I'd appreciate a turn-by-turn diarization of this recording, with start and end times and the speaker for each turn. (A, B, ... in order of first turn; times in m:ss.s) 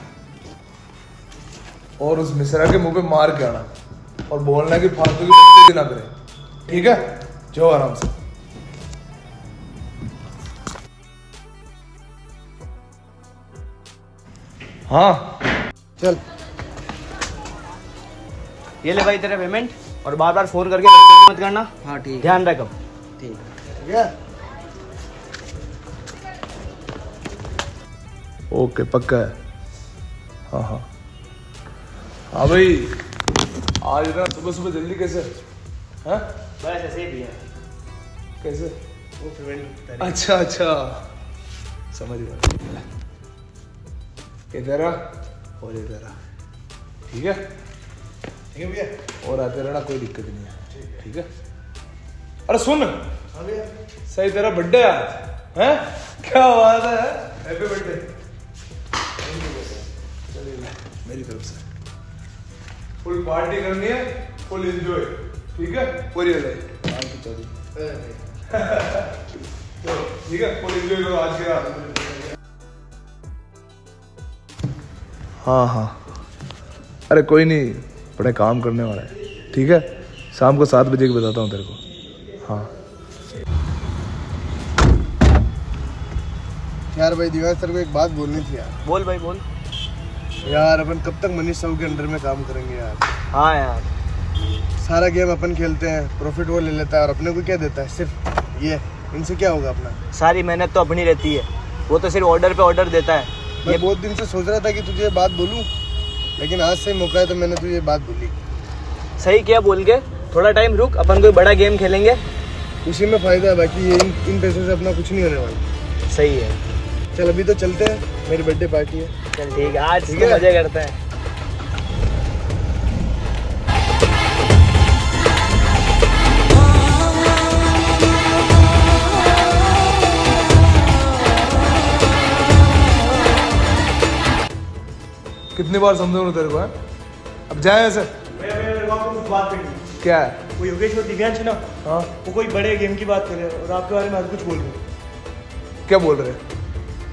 0:02.0-0:03.7 A
0:04.3-0:06.1 A
0:06.6-0:08.1 A
0:14.9-0:15.2 A
0:18.8-0:22.7 B
0:21.8-0:22.2 C
0:23.2-0:24.1 C
0:28.5-0:29.3 A
0:30.5-0:30.8 A
0:32.3-0:32.9 A
0:33.8-0:35.3 A
0:36.6-0:37.4 B
0:38.4-0:38.7 A
0:39.3-0:39.6 B
0:40.0-0:41.0 A
0:41.9-0:42.8 A
0:44.5-0:45.0 A
0:45.6-0:46.1 A
0:47.1-0:47.4 A
0:48.5-0:48.9 C
0:49.2-0:51.3 A
0:50.7-0:51.0 C
0:52.5-0:52.9 A
0:53.3-0:53.7 C
0:54.1-0:58.0 A
0:59.3-1:01.6 A
1:03.0-1:07.5 A
1:07.7-1:08.2 C
1:08.5-1:09.1 A
1:09.8-1:12.0 A
1:15.4-1:16.0 A
1:17.1-1:21.8 A
1:26.9-1:28.7 C
1:28.8-1:29.4 B
1:30.4-1:33.0 C
1:33.3-1:33.9 B
1:34.8-1:40.0 C
1:40.1-1:43.8 B
1:43.6-1:45.7 C
1:46.4-1:48.3 C
1:49.2-1:52.2 B
1:52.8-1:55.6 C
1:56.1-1:56.6 B
1:57.1-1:59.1 C
1:59.3-2:01.0 B
2:00.1-2:00.4 C
2:15.5-2:16.7 A
2:17.5-2:18.1 A
2:18.4-2:19.8 D
2:20.0-2:20.4 A
2:20.6-2:21.6 D
2:21.8-2:22.1 A
2:22.2-2:24.8 D
2:25.9-2:26.4 A